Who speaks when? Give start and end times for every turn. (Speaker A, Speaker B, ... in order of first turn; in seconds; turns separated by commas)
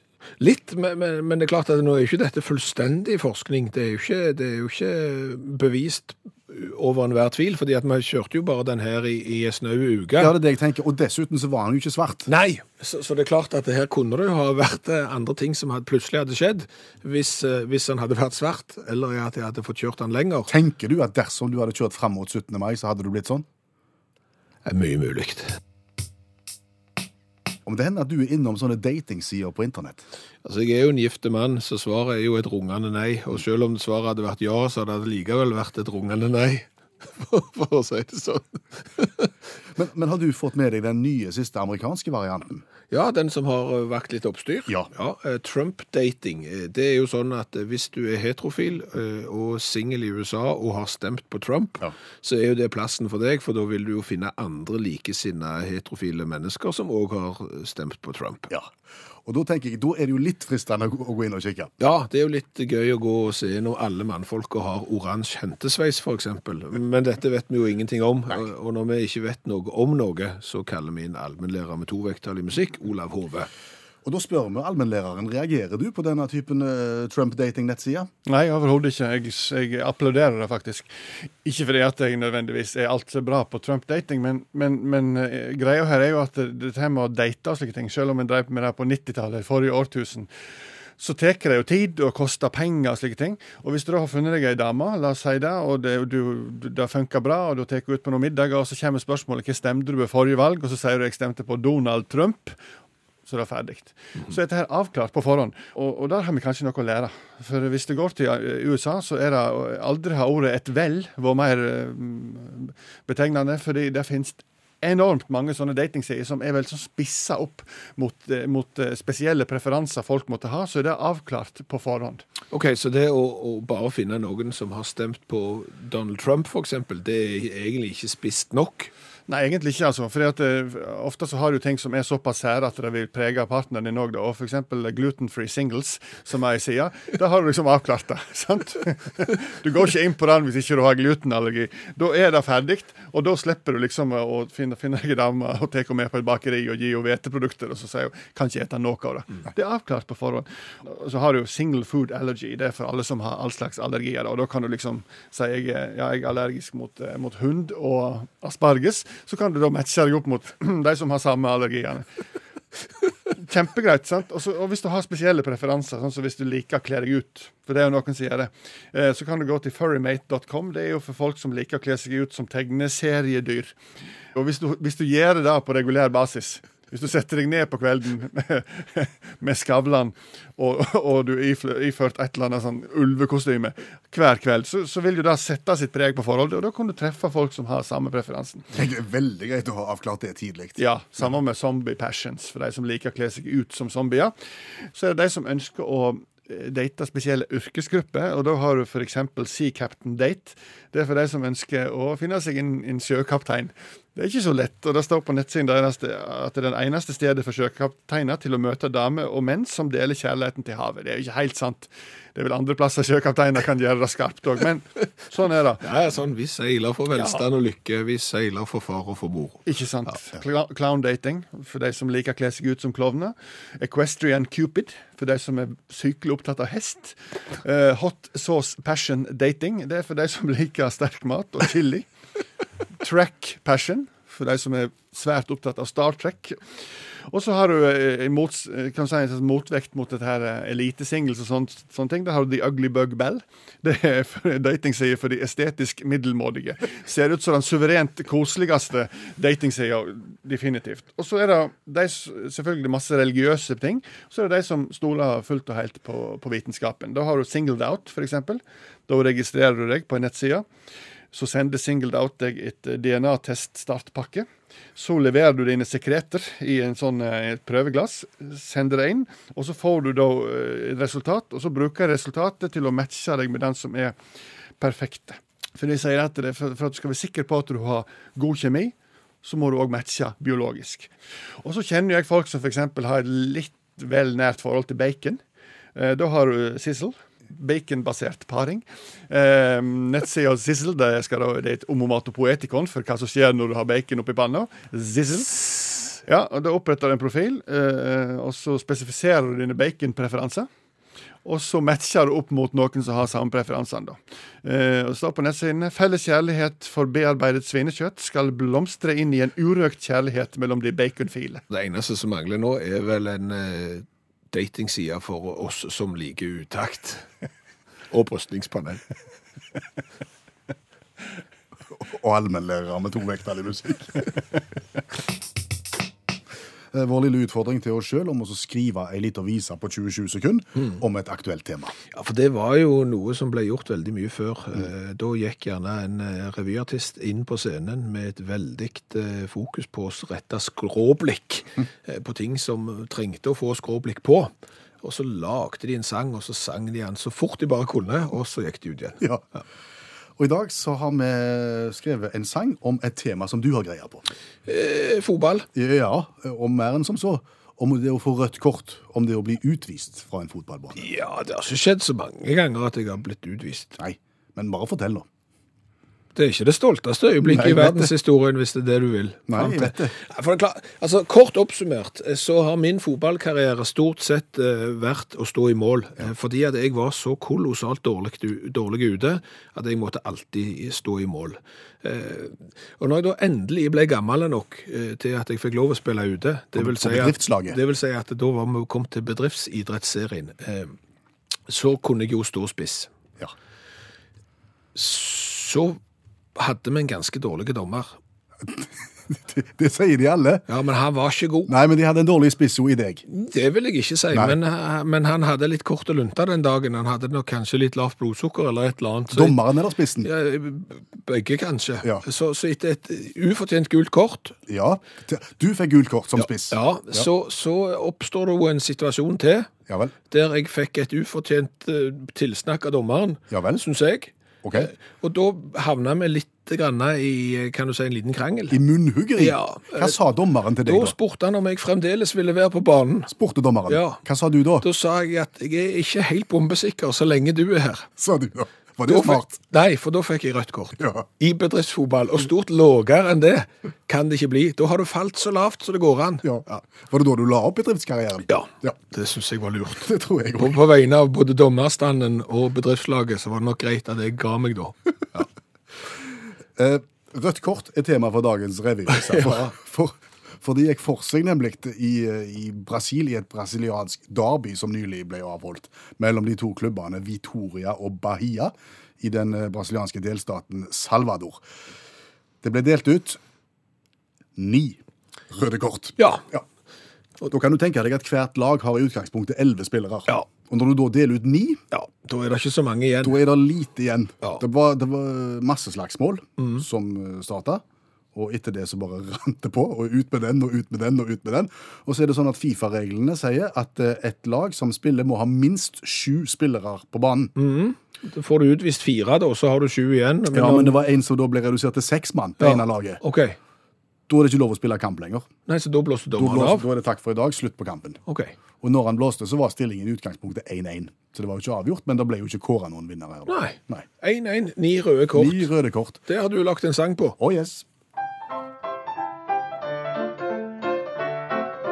Speaker A: 0.4-10.3, Speaker B: 10.2-12.3, Speaker A: 12.3-20.5, Speaker B: 20.5-23.4, Speaker A: 24.6-25.6, Speaker B: 27.6-30.0, Speaker A: 30.4-39.3, Speaker B: 39.7-42.6, Speaker A: 42.9-58.5, Speaker B: 59.2-61.7, Speaker A: 61.8-73.5, Speaker B: 74.0-78.1, Speaker C: 78.2-80.9, Speaker C: 81.4-90.3, Speaker C: 91.0-102.5, Speaker C: 103.2-122.2, Speaker A: 122.5-128.9, Speaker C: 129.3-162.1, Speaker C: 163.3-173.7, Speaker C: 174.3-188.7, Speaker B: 188.7-190.8, Speaker C: 190.8-215.8, Speaker A: 215.8-219.6, Speaker C: 219.7-232.1, Speaker C: 233.0-236.6, Speaker C: 237.3-260.6, Speaker C: 261.3-274.1, Speaker C: 274.8-281.1, Speaker C: 281.6-285.4, Speaker C: 285.9-300.7, Speaker C: 301.4-311.6, Speaker A: 311.7-317.2, Speaker A: 318.1-319.0, Speaker B: 321.9-324.3, Speaker B: 326.9-331.9, Speaker A: 332.1-344.5, Speaker A: 345.0-349.6, Speaker B: 350.4-354.2, Speaker A: 354.7-355.7, Speaker B: 355.7-361.0, Speaker A: 361.0-364.0, Speaker B: 364.0-365.2, Speaker A: 366.3-390.9, Speaker B: 367.4-368.1, Speaker B: 369.5-370.1, Speaker B: 386.7-387.8, Speaker A: 391.7-393.1, Speaker A: 394.9-396.0, Speaker A: 396.6-398.1, Speaker B: 398.6-400.6, Speaker A: 400.7-401.7, Speaker B: 401.7-403.2, Speaker A: 403.3-409.6, Speaker B: 404.3-404.6, Speaker B: 409.3-410.3, Speaker A: 410.2-414.6, Speaker B: 414.7-417.3, Speaker A: 416.4-419.7, Speaker B: 419.9-420.1, Speaker A: 420.3-428.8, Speaker B: 423.5-423.8, Speaker B: 424.6-424.9, Speaker B: 428.7-431.1, Speaker A: 429.4-430.2, Speaker A: 430.8-433.3, Speaker B: 433.3-434.9, Speaker A: 433.9-434.2, Speaker A: 434.8-438.1, Speaker B: 438.2-439.5, Speaker A: 439.1-446.8, Speaker B: 441.0-441.2, Speaker B: 446.4-448.9, Speaker A: 448.5-455.5, Speaker B: 450.0-450.8, Speaker B: 456.8-471.6, Speaker A: 459.1-459.7, Speaker B: 472.6-473.4, Speaker B: 474.5-476.6, Speaker A: 476.2-476.4, Speaker B: 477.5-481.8, Speaker A: 481.9-483.4, Speaker B: 483.2-487.8, Speaker A: 486.6-486.8, Speaker B: 488.3-497.5, Speaker A: 497.6-500.9, Speaker B: 500.5-503.2, Speaker A: 502.6-503.6, Speaker B: 504.3-505.5, Speaker A: 505.7-506.8, Speaker B: 506.4-508.2, Speaker A: 508.2-508.5, Speaker B: 508.8-514.0, Speaker A: 513.5-515.7, Speaker B: 515.3-516.2, Speaker A: 516.2-517.4, Speaker B: 517.4-517.8